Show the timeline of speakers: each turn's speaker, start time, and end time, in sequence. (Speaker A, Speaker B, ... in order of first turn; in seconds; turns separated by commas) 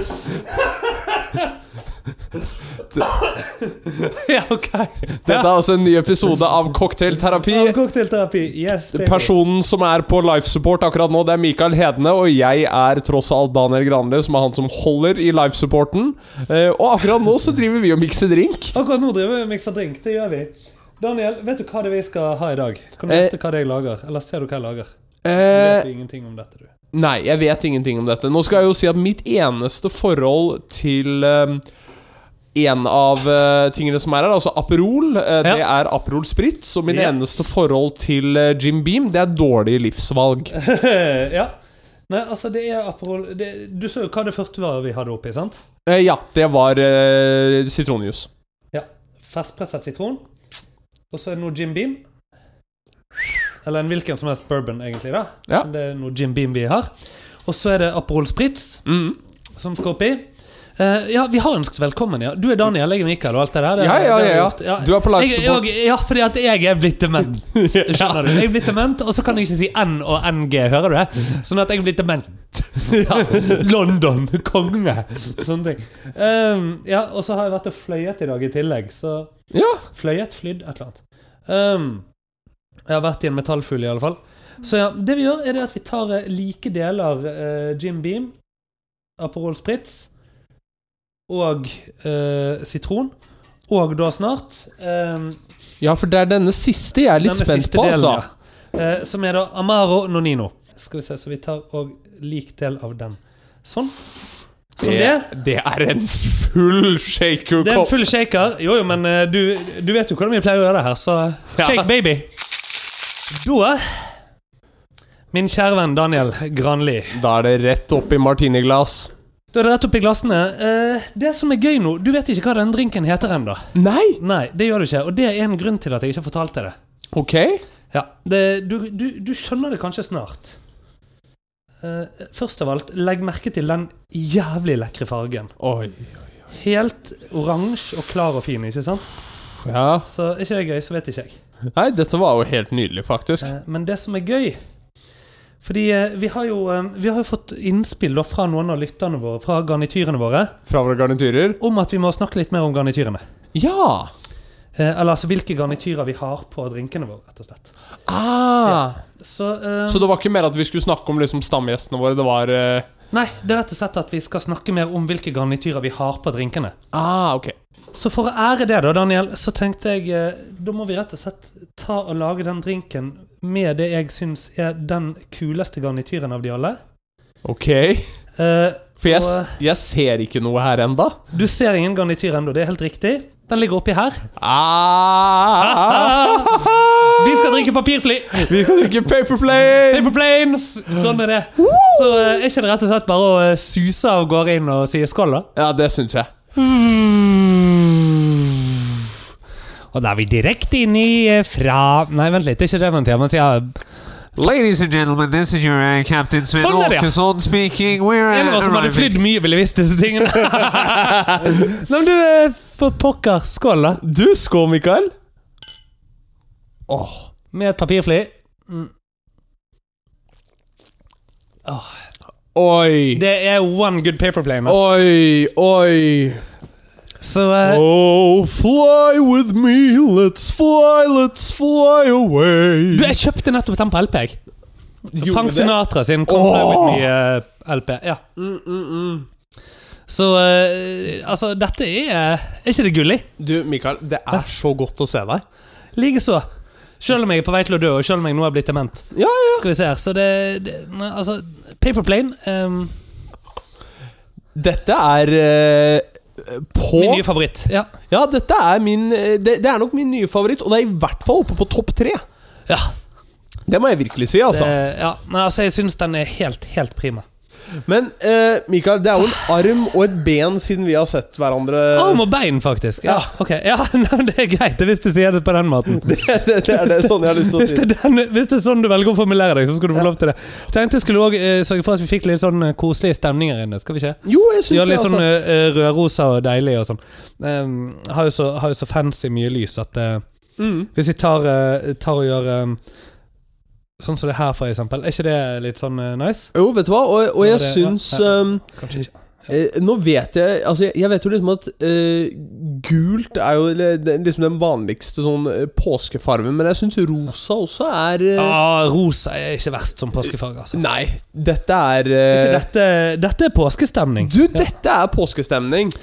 Speaker A: 0.5-1.5, Speaker A: 3.0-5.5, Speaker B: 5.2-7.8, Speaker A: 7.5-9.3, Speaker B: 8.9-18.8, Speaker A: 18.7-26.7, Speaker B: 25.2-25.9, Speaker B: 26.9-31.6, Speaker B: 32.5-40.5, Speaker A: 36.9-37.1, Speaker A: 40.5-41.5, Speaker A: 42.1-45.6, Speaker B: 45.9-48.3, Speaker A: 48.7-50.2, Speaker A: 51.1-52.0, Speaker A: 53.6-56.9, Speaker A: 57.5-58.8, Speaker B: 58.9-59.2, Speaker A: 59.5-79.3, Speaker B: 63.8-65.7, Speaker B: 67.5-68.6, Speaker B: 72.9-73.6, Speaker B: 79.5-79.8, Speaker A: 79.9-82.0, Speaker A: 82.9-88.3, Speaker A: 89.2-90.1, Speaker A: 91.3-93.1, Speaker A: 93.7-95.4, Speaker B: 95.8-98.2, Speaker A: 97.2-105.3, Speaker B: 104.8-107.9, Speaker A: 107.6-112.3, Speaker B: 111.5-111.9, Speaker A: 113.3-114.1, Speaker A: 115.3-117.2, Speaker B: 117.1-119.1, Speaker A: 119.5-123.6, Speaker B: 123.7-124.2, Speaker A: 124.2-126.7, Speaker B: 127.1-127.6, Speaker A: 127.9-130.6, Speaker A: 131.8-135.5, Speaker B: 135.6-136.1, Speaker A: 136.5-139.1, Speaker B: 139.6-140.1, Speaker A: 140.1-141.4, Speaker B: 141.7-143.5, Speaker A: 143.4-144.6, Speaker A: 145.6-150.6, Speaker B: 150.7-151.6, Speaker A: 151.6-153.2, Speaker B: 153.5-154.1, Speaker A: 154.8-157.7, Speaker B: 158.1-159.0, Speaker A: 159.2-160.1, Speaker B: 159.9-162.9, Speaker A: 163.1-166.8, Speaker B: 166.9-167.5, Speaker A: 167.9-176.8, Speaker B: 177.4-178.0, Speaker A: 178.4-179.6, Speaker B: 179.0-181.2, Speaker A: 181.3-184.2, Speaker B: 184.4-187.6, Speaker A: 185.6-188.7, Speaker B: 188.3-190.1, Speaker A: 189.9-195.5, Speaker B: 191.6-192.4, Speaker B: 195.5-196.3, Speaker A: 196.6-198.4, Speaker A: 199.9-203.8, Speaker C: 204.4-209.2, Speaker A: 206.6-207.2, Speaker A: 208.3-214.0, Speaker B: 214.0-215.1, Speaker B: 216.9-217.3, Speaker A: 217.5-218.9, Speaker A: 221.6-221.9, Speaker B: 222.5-223.2, Speaker A: 223.1-224.8, Speaker B: 224.7-226.4, Speaker A: 227.2-227.8, Speaker B: 227.6-233.2, Speaker A: 232.9-234.4, Speaker A: 235.1-238.2, Speaker B: 235.1-235.7, Speaker B: 236.3-237.1, Speaker B: 238.3-239.3, Speaker A: 240.1-243.3, Speaker B: 243.4-245.4, Speaker A: 245.9-246.4, Speaker A: 247.0-252.9, Speaker B: 249.1-249.6, Speaker B: 254.5-257.2, Speaker A: 256.9-257.9, Speaker B: 258.1-262.2, Speaker A: 262.7-262.9, Speaker B: 263.7-264.7, Speaker A: 264.5-267.2, Speaker B: 267.9-272.3, Speaker A: 271.9-290.2, Speaker B: 273.0-273.3, Speaker B: 275.9-277.9, Speaker B: 284.2-285.2, Speaker B: 290.6-290.9, Speaker A: 290.9-292.8, Speaker A: 294.0-296.5, Speaker B: 296.5-298.6, Speaker A: 297.4-299.1, Speaker B: 299.5-308.6, Speaker A: 308.4-310.8, Speaker B: 310.7-312.6, Speaker A: 312.3-314.7, Speaker B: 314.2-315.9